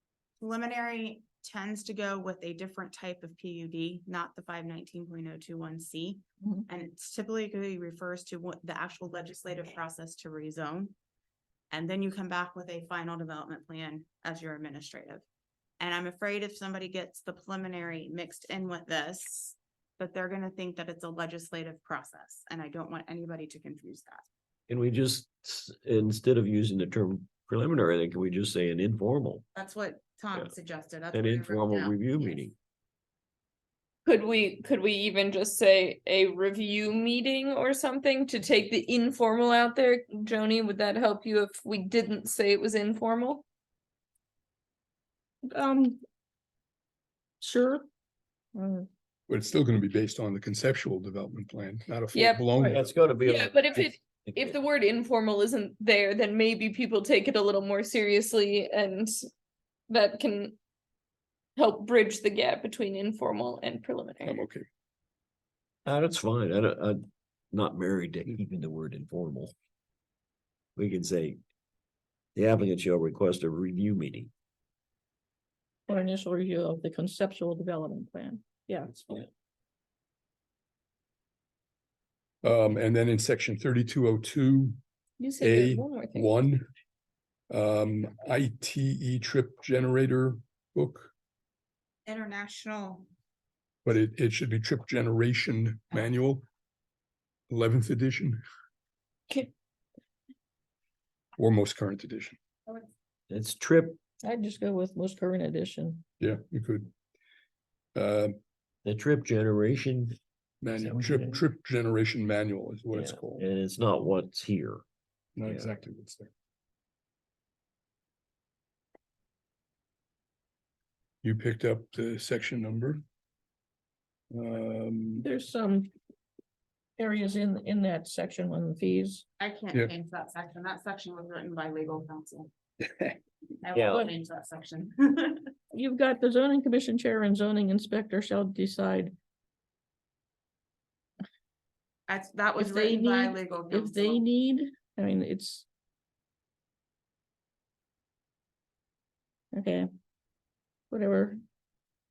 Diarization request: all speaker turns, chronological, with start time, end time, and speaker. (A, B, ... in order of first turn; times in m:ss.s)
0:00.4-0:10.9 A
0:11.7-0:15.2 A
0:15.8-0:24.3 A
0:24.7-0:29.4 B
0:29.5-0:32.4 A
0:31.1-0:32.5 B
0:34.0-0:43.4 C
0:45.5-0:46.0 D
0:47.4-0:47.8 D
0:48.5-0:48.9 D
0:49.3-0:52.9 E
0:52.1-0:52.5 C
0:52.6-0:54.5 B
0:53.2-0:59.1 C
0:59.9-1:00.6 C
1:01.6-1:04.4 C
1:04.2-1:04.6 E
1:05.8-1:09.5 B
1:10.8-1:11.4 B
1:12.4-1:14.3 B
1:15.9-1:19.3 D
1:22.4-1:24.8 E
1:25.2-1:26.4 C
1:25.4-1:26.7 E
1:27.5-1:31.1 E
1:32.0-1:33.1 A
1:33.8-1:36.4 E
1:37.5-1:38.4 E
1:41.4-1:42.4 E
1:43.3-1:44.0 B
1:44.2-1:46.0 D
1:46.2-1:46.9 E
1:47.9-1:48.4 E
1:48.8-1:50.2 B
1:50.6-1:53.4 E
1:50.8-1:51.4 B
1:52.9-1:54.8 B
1:55.4-1:56.3 E
2:01.2-2:03.0 E
2:04.3-2:05.2 E
2:05.2-2:05.9 D
2:07.0-2:09.2 D
2:09.4-2:12.5 A
2:13.6-2:15.5 A
2:13.7-2:14.0 B
2:15.7-2:19.1 D
2:22.1-2:24.2 A
2:22.6-2:25.6 D
2:29.5-2:29.8 D
2:30.9-2:31.4 D